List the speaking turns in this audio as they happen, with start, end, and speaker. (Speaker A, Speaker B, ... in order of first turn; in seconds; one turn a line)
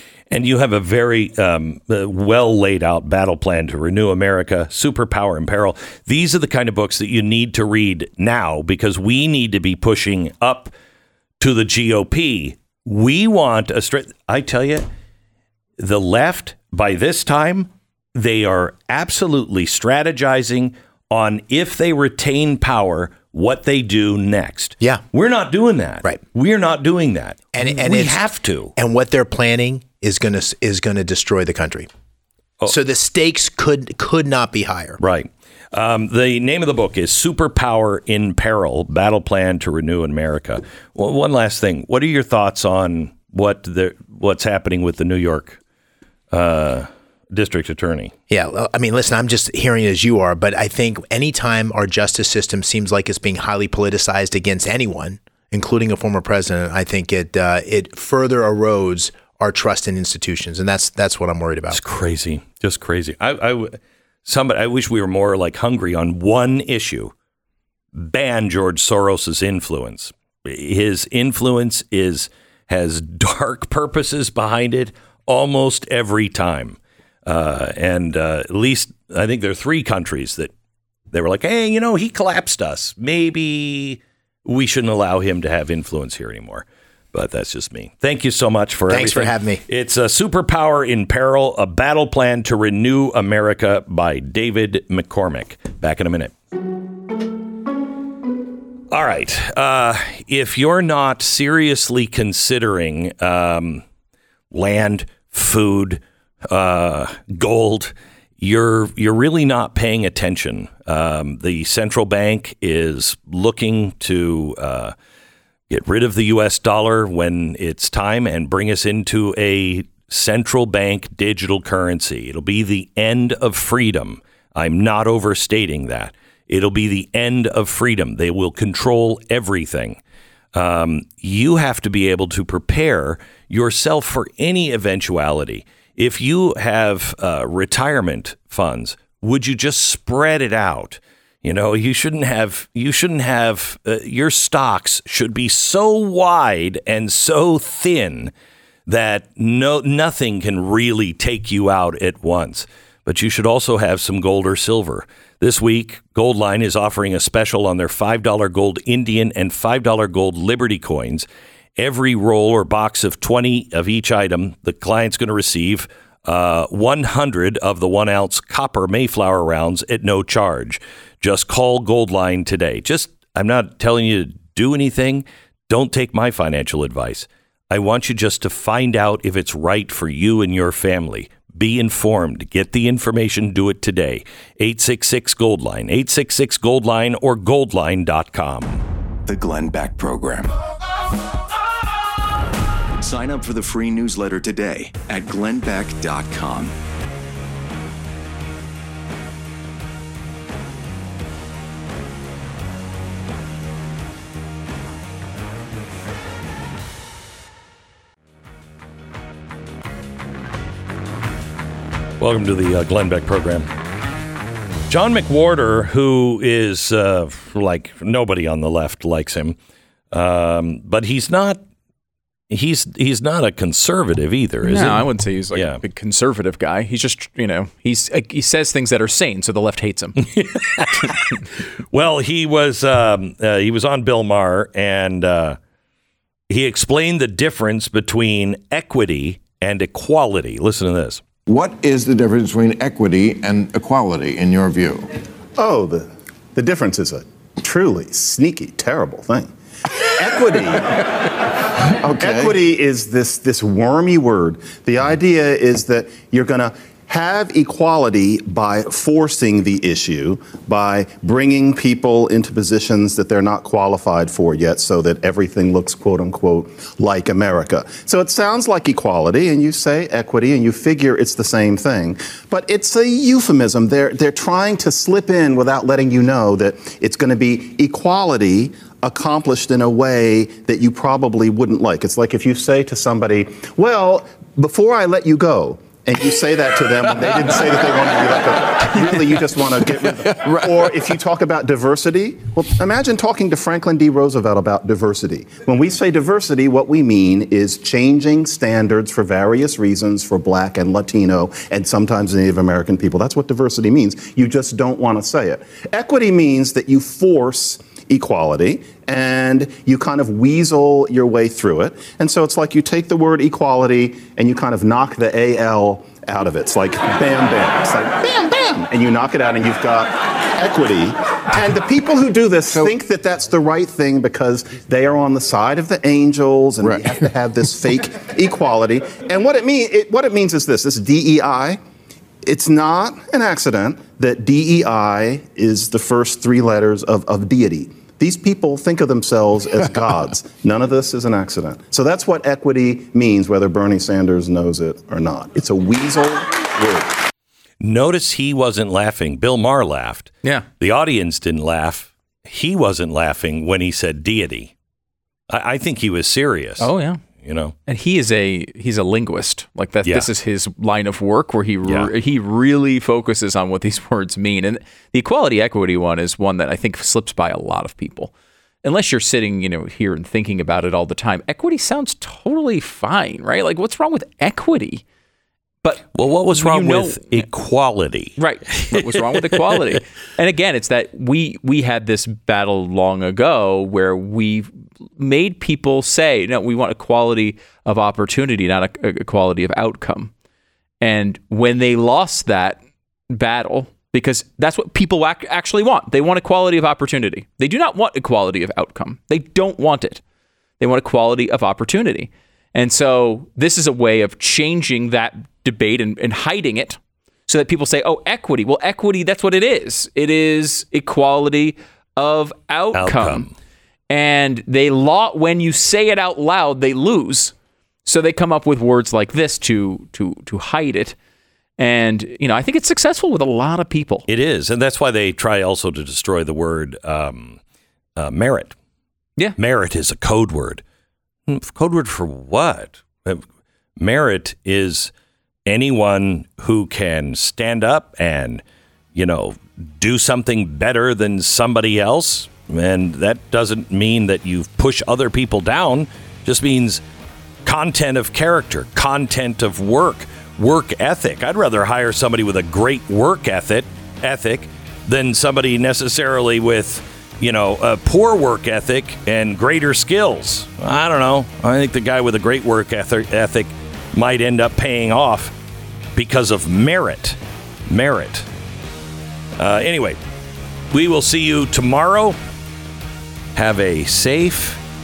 Speaker A: 0.3-10.7
Speaker A: 11.4-14.9
Speaker A: 15.8-28.7
Speaker B: 27.6-31.9
Speaker B: 32.6-35.0
Speaker A: 35.0-45.6
Speaker A: 46.3-48.1
Speaker B: 48.3-61.8
Speaker A: 61.7-67.1
Speaker A: 67.9-80.5
Speaker A: 81.1-96.3
Speaker B: 88.9-89.6
Speaker A: 98.9-103.8
Speaker A: 104.5-115.0
Speaker A: 115.7-130.0
Speaker A: 130.5-148.3
Speaker A: 148.9-161.3
Speaker A: 161.8-188.8
Speaker C: 189.3-190.6
Speaker C: 193.0-196.8
Speaker A: 212.2-213.7
Speaker A: 214.9-219.6
Speaker A: 220.1-221.6
Speaker A: 222.5-225.8
Speaker D: 224.6-230.2
Speaker A: 230.2-231.4
Speaker A: 231.9-235.6
Speaker A: 236.5-241.2
Speaker E: 241.5-244.0
Speaker F: 245.6-331.8
Speaker F: 332.4-347.1
Speaker A: 347.8-354.7
Speaker A: 355.5-356.9
Speaker D: 356.8-357.2
Speaker A: 357.4-357.8
Speaker D: 357.9-368.3
Speaker A: 360.0-360.3
Speaker D: 368.8-375.0
Speaker D: 375.8-377.5
Speaker A: 376.1-378.4
Speaker D: 378.4-390.3
Speaker A: 378.9-379.8
Speaker D: 391.0-400.2
Speaker D: 400.8-413.5
Speaker A: 412.9-413.5
Speaker D: 414.1-417.5
Speaker D: 418.1-421.2
Speaker D: 421.8-424.3
Speaker A: 424.3-427.6
Speaker A: 428.2-428.8
Speaker A: 429.6-430.8
Speaker A: 431.5-433.4
Speaker A: 434.0-435.1
Speaker A: 435.7-438.6
Speaker A: 439.1-447.0
Speaker A: 447.6-465.5
Speaker A: 466.1-468.5
Speaker A: 469.6-470.2
Speaker A: 470.9-472.4
Speaker A: 473.6-474.8